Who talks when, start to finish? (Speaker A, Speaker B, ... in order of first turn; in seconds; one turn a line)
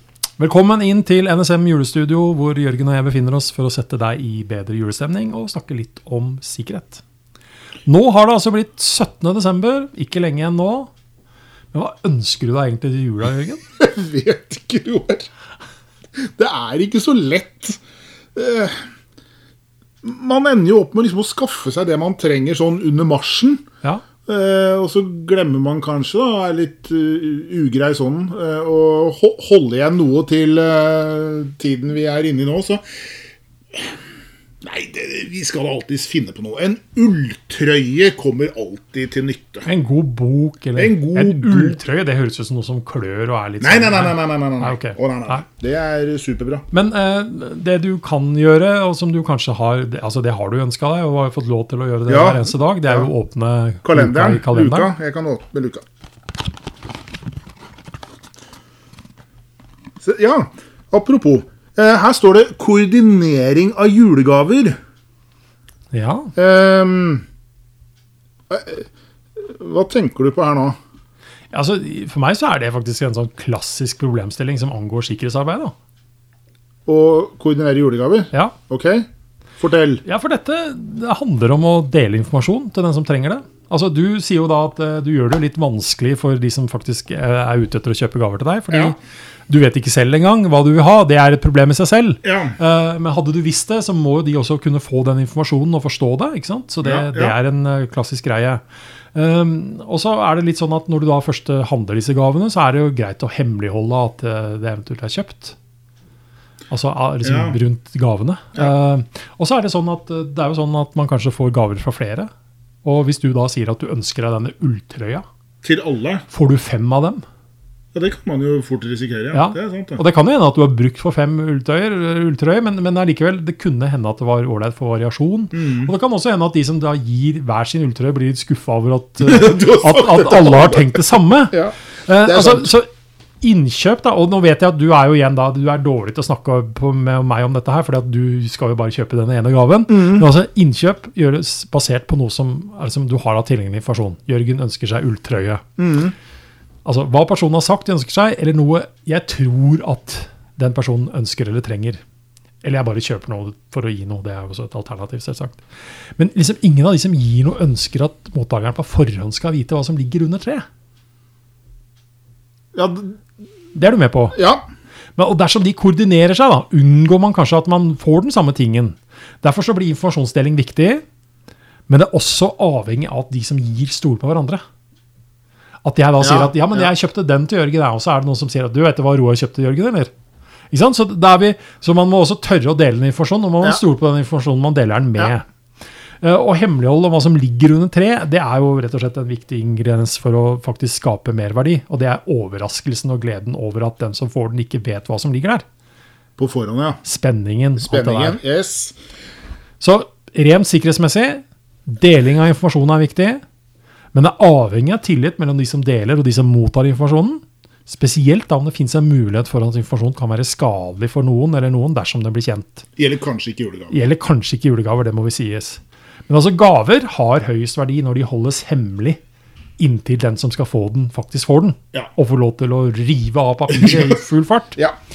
Speaker A: 0.4-7.0
Speaker A: 7.9-10.9
Speaker A: 11.7-13.6
Speaker B: 13.8-15.3
Speaker B: 16.4-17.8
Speaker B: 18.4-18.8
Speaker B: 20.0-23.6
Speaker B: 24.2-32.8
Speaker B: 34.6-39.7
Speaker A: 39.6-45.4
Speaker B: 40.8-41.8
Speaker B: 43.6-46.7
Speaker A: 46.7-54.9
Speaker B: 52.1-53.1
Speaker B: 53.8-55.8
Speaker B: 60.0-64.8
Speaker A: 65.9-66.3
Speaker B: 66.4-67.2
Speaker B: 68.5-70.8
Speaker A: 71.5-75.7
Speaker B: 76.9-79.1
Speaker B: 79.6-80.0
Speaker A: 80.0-89.0
Speaker B: 88.7-89.0
Speaker A: 89.5-98.6
Speaker B: 92.2-92.6
Speaker B: 96.8-97.4
Speaker A: 99.1-105.6
Speaker A: 106.7-112.3
Speaker B: 107.2-107.6
Speaker A: 112.8-115.2
Speaker B: 115.6-116.2
Speaker A: 116.3-117.2
Speaker B: 117.9-120.0
Speaker A: 119.3-132.9
Speaker B: 125.5-125.9
Speaker B: 129.2-132.7
Speaker A: 133.4-145.7
Speaker B: 139.9-140.2
Speaker B: 145.8-146.1
Speaker A: 146.8-152.0
Speaker A: 152.6-155.6
Speaker A: 156.2-160.7
Speaker B: 162.7-163.2
Speaker A: 163.7-164.4
Speaker B: 164.3-164.6
Speaker A: 165.2-171.0
Speaker A: 171.9-174.6
Speaker A: 175.8-180.1
Speaker B: 176.2-176.9
Speaker A: 180.7-185.4
Speaker A: 186.2-195.6
Speaker B: 196.4-197.0
Speaker A: 197.0-198.4
Speaker B: 197.8-199.0
Speaker A: 199.8-203.4
Speaker A: 204.1-212.9
Speaker B: 213.0-213.9
Speaker A: 213.9-219.2
Speaker A: 219.8-224.8